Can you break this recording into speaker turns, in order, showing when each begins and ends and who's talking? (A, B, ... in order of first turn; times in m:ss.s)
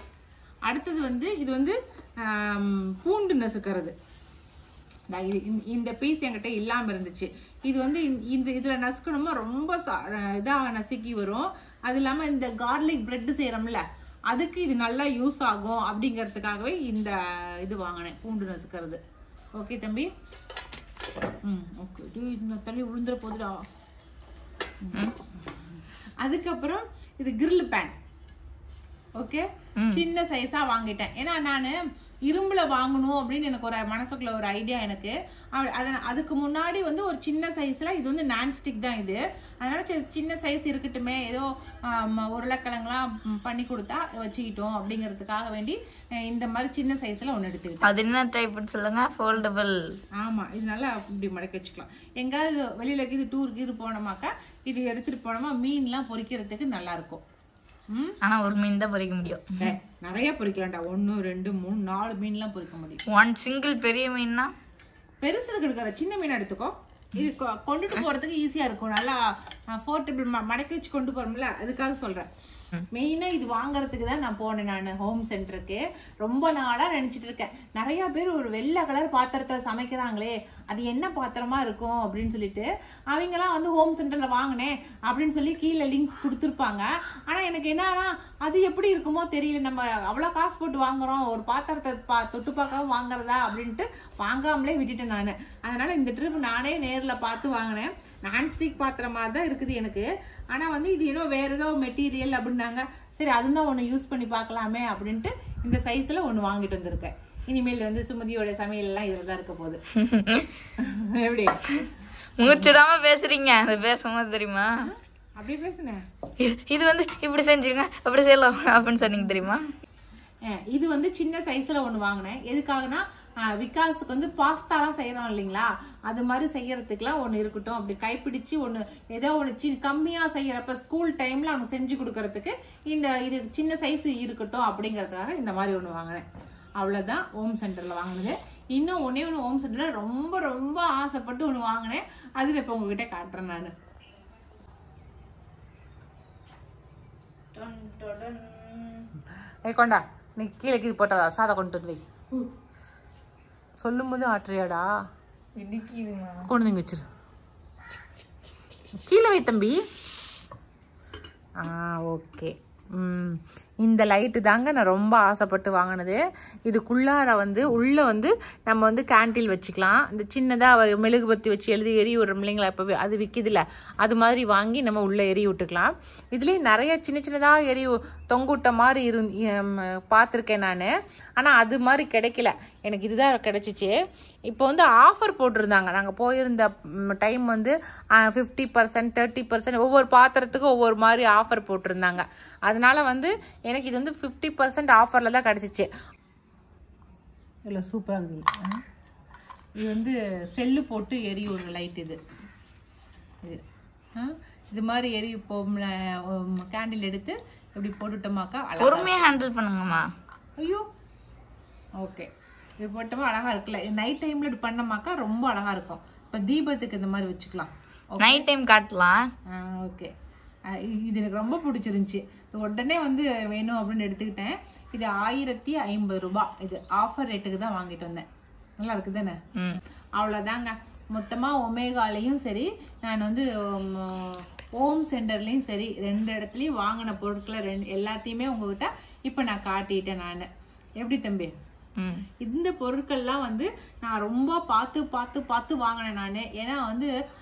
0:00.7-0:03.9 A
0:05.1-0:19.0 A
0:19.6-0:20.1 A
0:21.4-0:23.6 A
0:24.8-0:25.1 A
0:26.2-0:27.9 A
0:29.2-0:31.7 A
0:29.8-0:30.0 B
0:32.3-0:48.0 A
0:47.8-0:49.8 B
0:50.2-0:57.2 A
0:57.9-0:58.2 A
0:58.2-0:59.5 B
0:59.6-1:03.0 A
1:03.1-1:04.5 B
1:05.2-1:12.3 A
1:12.9-1:49.8 A
1:50.0-1:50.5 B
1:50.8-1:51.6 A
1:52.4-1:54.7 B
1:54.8-1:56.0 A
1:56.4-1:59.6 B
2:00.5-2:16.2 A
2:16.8-2:23.7 A
2:27.5-2:29.1 B
2:29.7-2:32.1 A
2:33.8-2:34.9 A
2:35.6-2:36.4 B
2:36.5-2:37.0 A
2:39.0-2:39.8 A
2:41.6-3:03.9 A
3:04.5-3:15.9 A
3:17.7-3:18.8 A
3:19.8-3:22.2 A
3:24.2-3:29.1 A
3:28.8-3:30.0 B
3:30.6-3:30.8 A
3:32.0-3:32.3 A
3:32.8-3:38.5 A
3:38.2-3:39.2 B
3:39.5-3:40.1 A
3:40.7-3:48.2 A
3:48.8-3:49.4 A
3:50.2-4:00.5 A
4:01.0-4:01.5 A
4:02.0-4:02.2 B
4:02.4-4:07.1 A